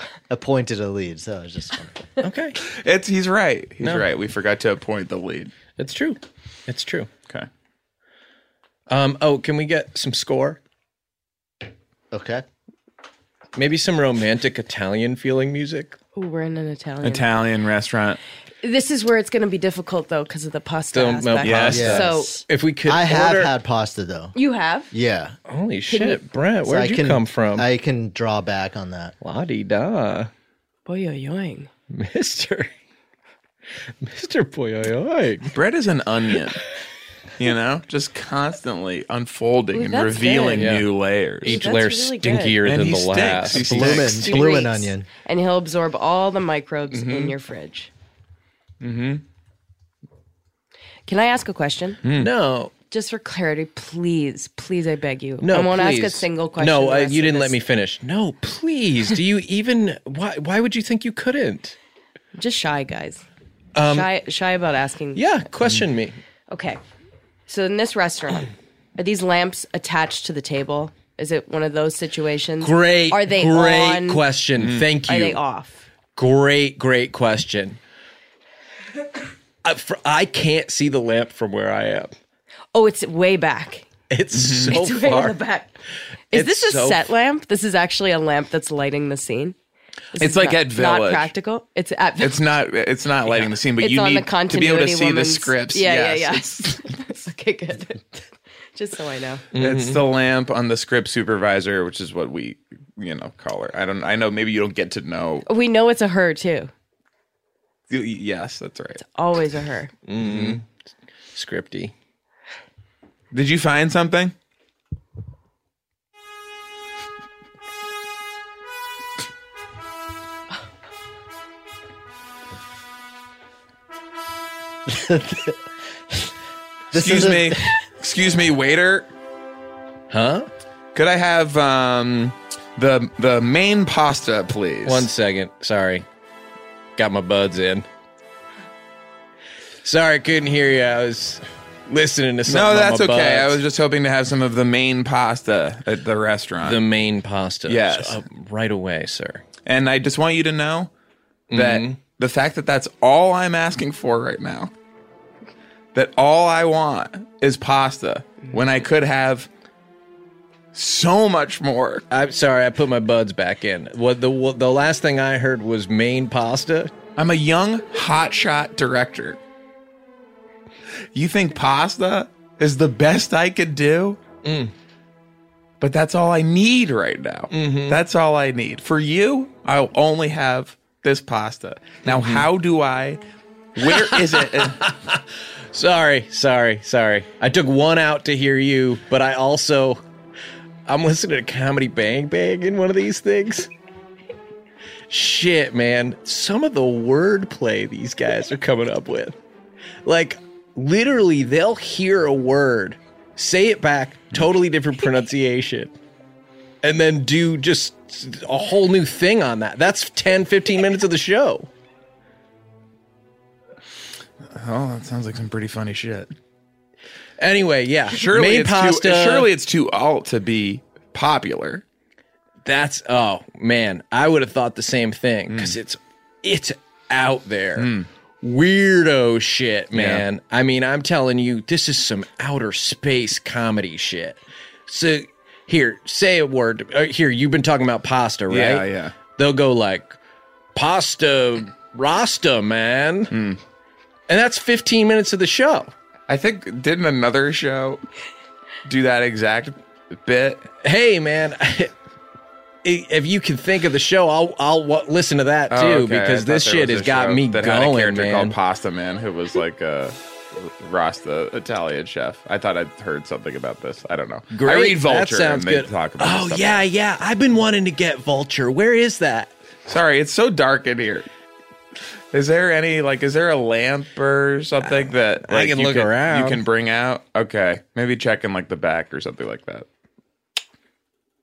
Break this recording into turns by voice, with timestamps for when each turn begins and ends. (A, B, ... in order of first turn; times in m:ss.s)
0:00.3-0:02.0 A
0:02.2-0:02.6 B
0:02.6-0:05.5 C
0:05.8-0:07.1 B
0:08.9-0:10.6 B
0:12.1-0:12.4 A
0:13.6-0:16.0 B
0:16.1-0:17.3 D
0:17.0-0:18.2 C
0:18.6-0:22.4 D
0:20.9-0:23.5 B
0:21.4-0:21.9 C
0:21.7-0:22.2 A
0:22.8-0:24.3 A
0:24.3-0:24.9 D
0:24.9-0:25.3 A
0:25.5-0:27.7 B
0:25.9-0:26.2 D
0:26.6-0:29.1 A
0:29.2-0:30.3 B
0:30.8-0:31.7 D
0:31.9-0:32.7 B
0:34.0-0:35.5 B
0:35.5-0:36.6 C
0:37.4-0:41.6 C
0:39.7-0:40.7 D
0:40.6-0:40.8 B
0:41.4-0:44.1 B
0:41.4-0:42.6 D
0:42.6-0:44.4 C
0:43.5-0:45.1 A
0:44.2-0:47.9 D
0:46.9-0:47.3 C
0:48.8-0:49.2 C
0:51.1-0:52.0 D
0:52.0-0:52.3 C
0:52.1-0:52.7 B
0:52.9-0:57.5 D
0:55.4-1:01.8 B
1:02.3-1:03.2 D
1:03.7-1:04.1 B
1:03.8-1:05.2 D
1:05.1-1:06.2 B
1:06.5-1:06.8 D
1:07.5-1:14.2 D
1:12.6-1:15.4 B
1:14.6-1:14.8 C
1:15.0-1:15.8 D
1:16.2-1:17.8 B
1:19.6-1:22.1 B
1:22.7-1:23.9 D
1:24.1-1:25.4 B
1:24.3-1:24.8 C
1:24.6-1:25.7 D
1:26.3-1:29.6 D
1:26.3-1:27.0 B
1:30.1-1:32.5 D
1:30.2-1:31.3 C
1:32.2-1:36.8 C
1:33.4-1:39.4 D
1:39.5-1:40.0 B
1:39.6-1:45.4 C
1:45.4-1:46.7 D
1:47.9-1:49.0 C
1:49.0-1:49.9 D
1:50.1-1:50.6 B
1:50.2-1:50.6 C
1:51.3-1:51.9 B
1:53.3-1:54.3 C
2:04.9-2:05.6 A
2:06.9-2:07.6 A
2:06.9-2:09.1 C
2:10.1-2:10.5 B
2:10.9-2:15.1 C
2:14.8-2:16.0 B
2:17.0-2:17.9 B
2:19.8-2:23.6 B
2:22.4-2:26.8 C
2:26.6-2:29.4 B
2:27.7-2:28.2 C
2:29.6-2:30.9 C
2:31.5-2:32.0 B
2:31.5-2:34.7 C
2:35.9-2:39.5 C
2:40.7-2:42.0 C
2:42.1-2:46.9 B
2:47.2-2:49.4 C
2:51.1-2:54.2 C
2:54.4-2:54.7 B
2:55.8-3:03.2 C
2:57.5-2:58.0 B
3:02.0-3:02.4 B
3:03.8-3:04.9 C
3:03.8-3:10.0 B
3:10.8-3:13.7 B
3:15.1-3:19.4 B
3:20.0-3:25.9 B
3:26.8-3:31.7 B
3:34.5-3:36.3 C
3:37.4-3:39.5 B
3:38.1-3:41.8 C
3:42.6-3:47.9 B
3:45.5-3:45.8 C
3:47.8-3:48.1 C
3:48.4-4:00.2 B
3:49.9-3:50.2 C
3:58.5-3:59.1 C
4:00.7-4:03.3 B
4:03.3-4:03.6 C
4:04.3-4:05.9 B
4:06.3-4:08.0 C
4:08.8-4:10.7 C
4:10.8-4:11.9 B
4:12.8-4:18.5 B
4:15.7-4:26.8 C
4:24.5-4:29.5 B
4:29.8-4:31.3 C
4:32.3-4:39.8 C
4:34.8-4:36.6 B